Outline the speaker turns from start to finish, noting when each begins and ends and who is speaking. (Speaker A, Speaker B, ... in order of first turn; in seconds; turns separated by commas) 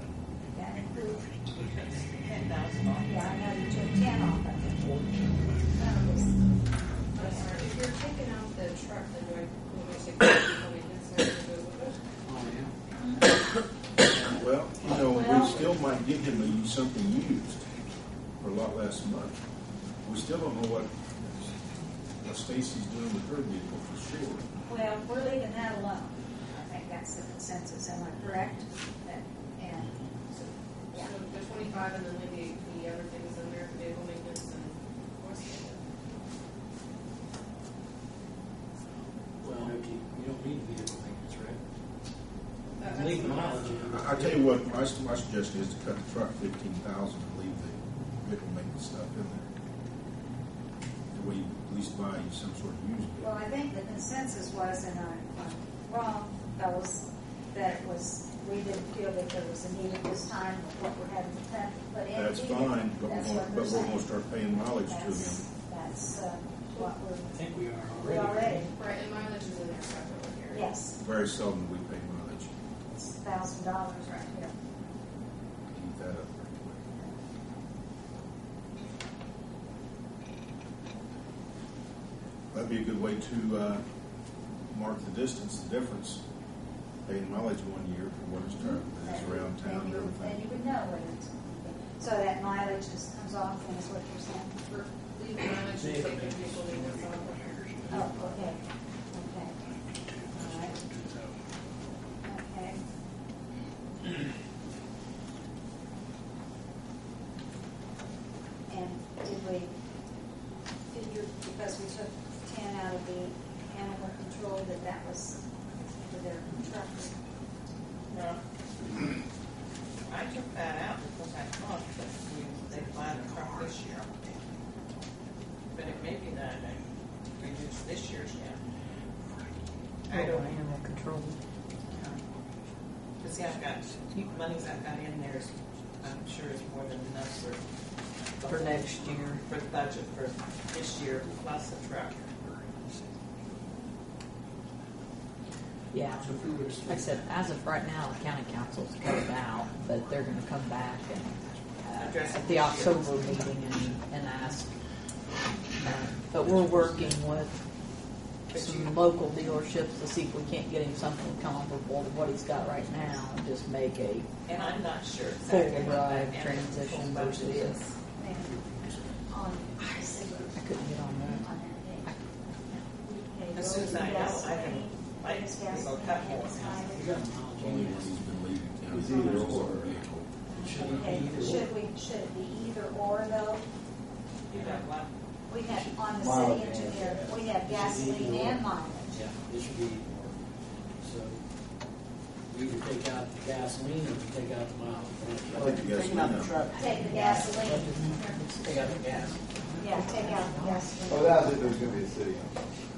Speaker A: 0.5-1.3, Speaker B: 1.5-3.4, Speaker A: 3.0-6.5, Speaker C: 5.8-6.2, Speaker A: 7.1-7.7, Speaker C: 7.1-12.0, Speaker D: 12.2-12.7, Speaker E: 14.2-17.6, Speaker A: 15.0-15.7, Speaker E: 18.4-19.4, Speaker E: 20.0-20.9, Speaker E: 22.2-24.4, Speaker A: 24.6-29.9, Speaker D: 29.8-30.1, Speaker C: 30.3-35.8, Speaker A: 30.9-31.2, Speaker D: 39.4-41.6, Speaker C: 42.8-43.7, Speaker D: 42.9-44.5, Speaker E: 43.8-49.5, Speaker E: 51.1-53.3, Speaker A: 53.2-64.0, Speaker E: 62.1-65.4, Speaker A: 64.8-67.4, Speaker D: 67.3-68.7, Speaker A: 68.0-68.7, Speaker C: 68.8-70.7, Speaker A: 70.5-71.0, Speaker E: 71.0-72.5, Speaker A: 72.9-74.5, Speaker E: 75.7-76.8, Speaker E: 82.5-83.8, Speaker E: 84.7-86.2, Speaker E: 87.0-90.5, Speaker A: 88.4-94.6, Speaker C: 94.7-97.6, Speaker D: 95.5-98.2, Speaker A: 97.9-98.6, Speaker A: 99.1-99.5, Speaker D: 100.1-101.3, Speaker A: 100.3-100.8, Speaker A: 102.2-102.8, Speaker A: 108.7-109.7, Speaker A: 110.9-115.4, Speaker A: 115.9-117.2, Speaker B: 118.1-118.4, Speaker B: 120.1-124.1, Speaker B: 125.7-128.6, Speaker B: 130.1-130.6, Speaker F: 130.1-131.4, Speaker B: 131.9-132.2, Speaker B: 133.2-137.6, Speaker B: 138.3-142.3, Speaker F: 138.4-139.4, Speaker F: 145.9-146.2, Speaker D: 146.1-147.2, Speaker F: 146.8-154.7, Speaker B: 151.9-153.4, Speaker F: 155.7-157.6, Speaker D: 156.4-157.1, Speaker B: 158.5-159.0, Speaker F: 158.5-164.6, Speaker B: 164.4-167.9, Speaker F: 165.4-167.8, Speaker A: 168.2-168.6, Speaker D: 168.5-168.8, Speaker E: 168.8-169.0, Speaker A: 169.2-170.8, Speaker F: 170.6-171.5, Speaker A: 171.3-172.2, Speaker A: 172.7-177.3, Speaker B: 173.5-176.8, Speaker D: 176.5-178.2, Speaker E: 177.6-180.3, Speaker G: 178.9-179.9, Speaker A: 180.5-183.6, Speaker D: 180.6-181.7, Speaker E: 180.8-181.1, Speaker B: 184.5-185.1, Speaker D: 184.5-184.8, Speaker A: 185.5-189.3, Speaker G: 185.8-187.2, Speaker D: 187.0-190.4, Speaker D: 191.0-191.4, Speaker D: 192.5-195.9, Speaker G: 195.5-196.8, Speaker E: 195.5-196.6, Speaker A: 196.7-198.5, Speaker D: 196.7-199.8, Speaker F: 198.1-200.9, Speaker A: 199.8-201.9, Speaker G: 201.1-202.6